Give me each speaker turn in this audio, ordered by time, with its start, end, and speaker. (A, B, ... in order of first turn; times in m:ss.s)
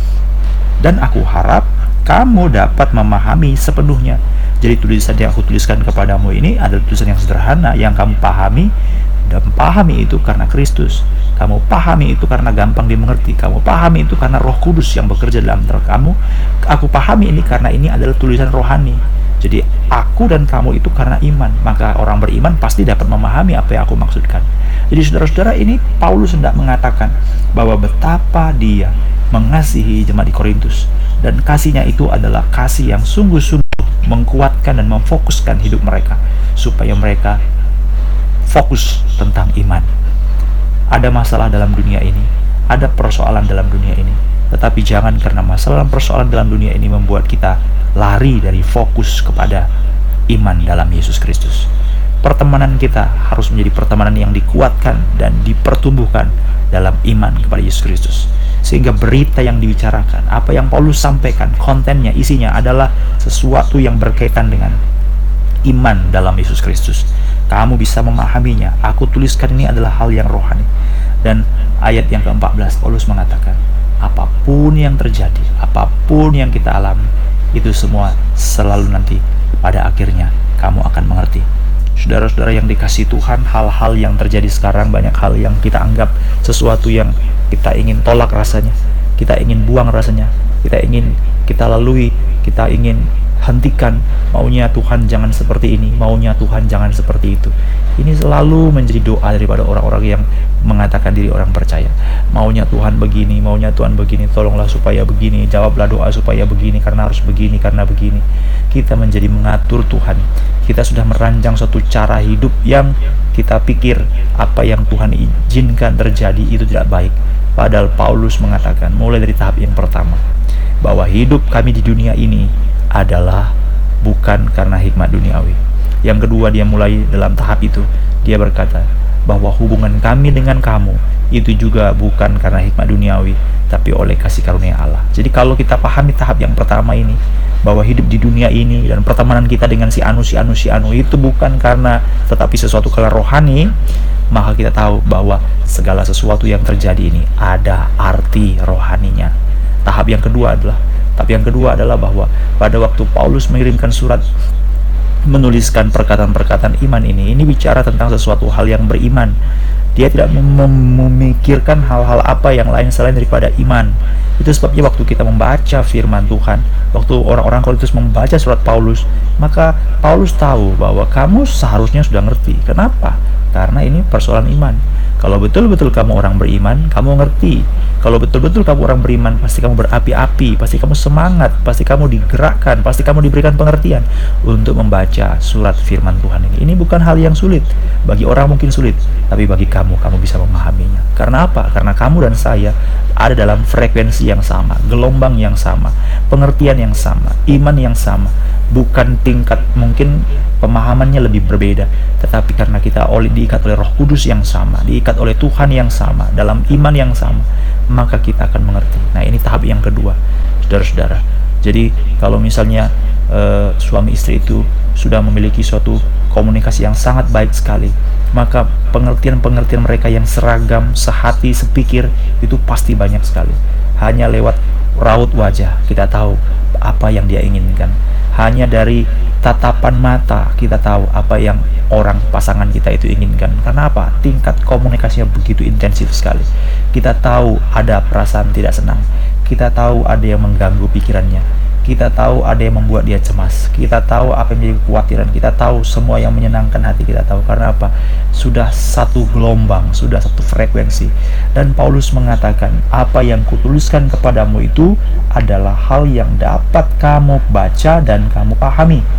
0:00.8-0:08.7 A
0:09.2-0:37.4 A
0:38.5-0:39.9 A
0:40.9-0:49.7 A
0:50.3-0:51.7 A
0:52.2-1:04.8 A
1:05.6-1:10.7 A
1:11.2-2:00.2 A
2:00.8-2:23.7 A
2:24.3-2:29.3 A
2:29.8-2:34.2 A
2:35.2-2:39.4 A
2:40.0-4:19.0 A